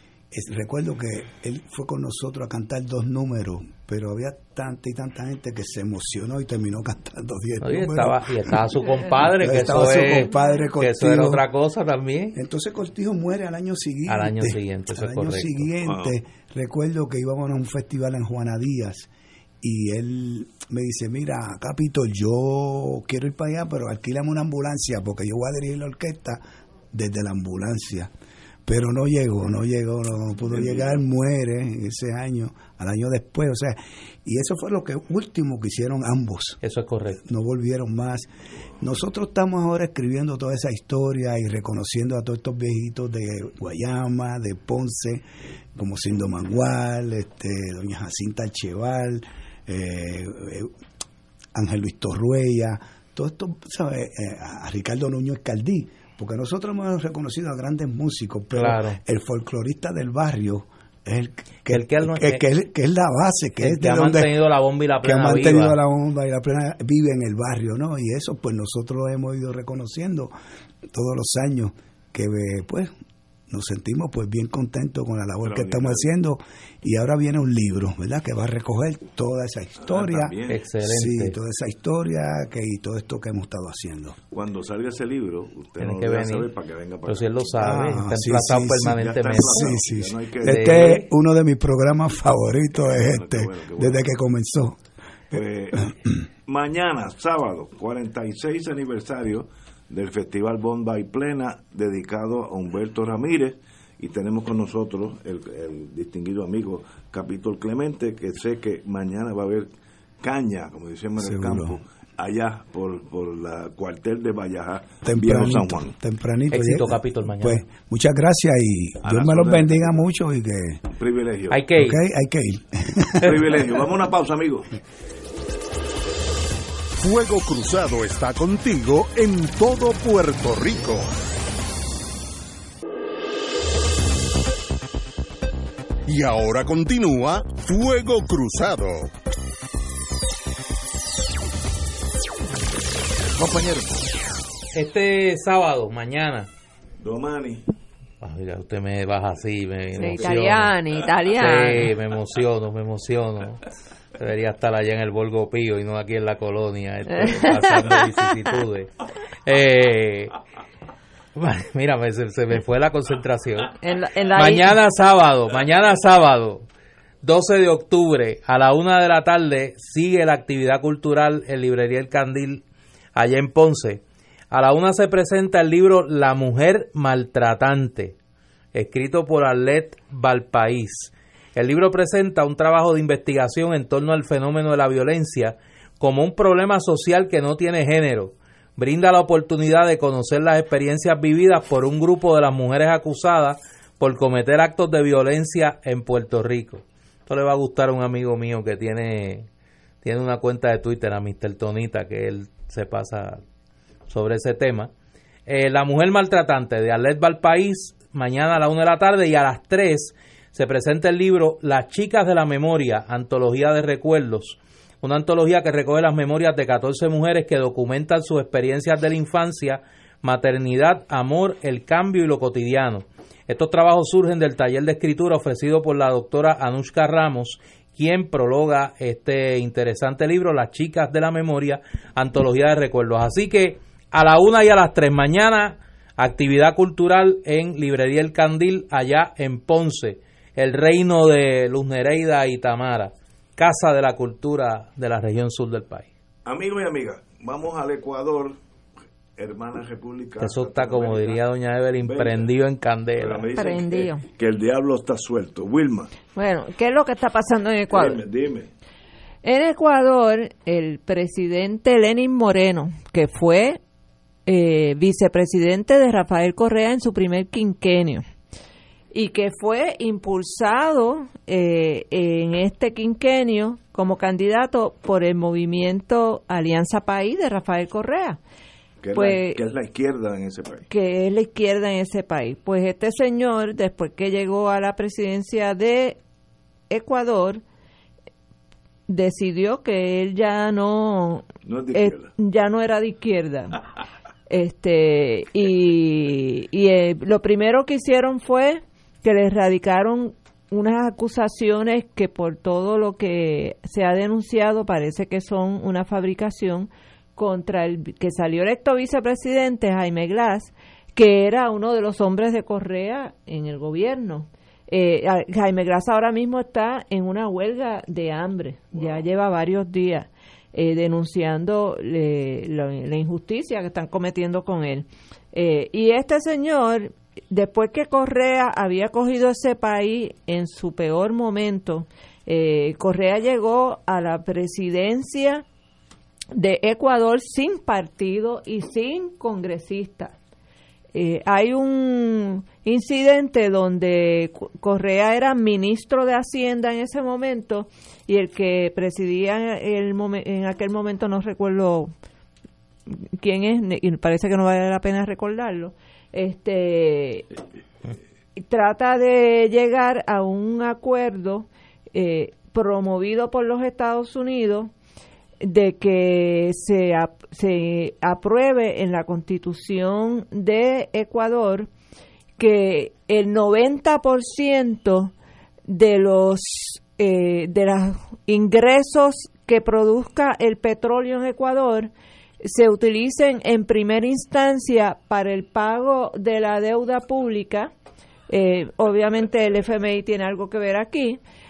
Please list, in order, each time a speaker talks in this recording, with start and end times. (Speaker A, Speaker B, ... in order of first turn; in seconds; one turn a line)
Speaker A: 0.3-11.4
Speaker B: 7.6-12.4
Speaker A: 12.3-19.1
Speaker B: 14.1-15.7
Speaker C: 15.8-16.1
Speaker A: 19.6-28.1
Speaker A: 28.7-36.6
Speaker C: 30.5-31.0
Speaker B: 36.6-37.2
Speaker A: 37.2-45.2
Speaker A: 45.8-50.7
Speaker A: 51.5-64.3
Speaker B: 58.5-59.0
Speaker B: 61.7-62.4
Speaker B: 63.6-65.8
Speaker A: 65.0-70.3
Speaker A: 70.9-72.9
Speaker A: 73.5-84.2
Speaker C: 75.4-76.1
Speaker C: 79.9-80.6
Speaker B: 80.5-81.4
Speaker C: 84.3-87.5
Speaker B: 85.8-86.5
Speaker B: 87.1-89.8
Speaker A: 87.6-94.8
Speaker C: 89.0-91.1
Speaker B: 90.4-91.0
Speaker C: 92.8-94.0
Speaker C: 95.3-95.9
Speaker A: 95.9-96.2
Speaker C: 96.5-109.7
Speaker C: 110.2-116.0
Speaker A: 111.2-111.8
Speaker A: 115.0-120.8
Speaker B: 116.5-117.6
Speaker C: 119.0-120.0
Speaker C: 121.0-121.6
Speaker B: 121.5-122.0
Speaker A: 121.8-123.5
Speaker C: 123.2-124.7
Speaker D: 126.9-131.1
Speaker D: 136.1-139.1
Speaker C: 143.3-144.0
Speaker B: 144.7-146.5
Speaker C: 147.0-147.7
Speaker B: 148.2-150.7
Speaker C: 150.0-150.6
Speaker E: 150.0-151.9
Speaker B: 151.4-153.7
Speaker B: 154.2-158.9
Speaker E: 157.2-158.1
Speaker B: 159.4-160.3
Speaker B: 161.4-163.8
Speaker E: 163.8-164.7
Speaker B: 164.3-166.7
Speaker B: 167.2-172.6
Speaker B: 173.2-178.2
Speaker B: 178.7-199.5
Speaker B: 200.0-203.4
Speaker B: 204.1-204.9
Speaker B: 205.5-246.1
Speaker C: 246.4-248.6
Speaker C: 249.4-251.4
Speaker B: 250.4-253.5
Speaker C: 252.0-252.5
Speaker C: 253.2-256.1
Speaker E: 253.6-254.2
Speaker E: 256.4-258.2
Speaker C: 257.9-258.7
Speaker E: 259.4-263.8
Speaker E: 264.5-268.2
Speaker E: 269.1-278.4
Speaker C: 279.0-280.9
Speaker E: 279.1-279.6
Speaker E: 280.9-286.2
Speaker E: 286.9-287.6
Speaker E: 289.1-293.8
Speaker C: 291.6-292.3
Speaker E: 294.5-335.6
Speaker E: 336.5-340.4
Speaker E: 341.1-352.1
Speaker E: 353.1-357.5
Speaker E: 358.6-364.9
Speaker E: 365.6-371.9
Speaker E: 372.6-375.3
Speaker E: 375.9-387.9
Speaker E: 388.5-391.4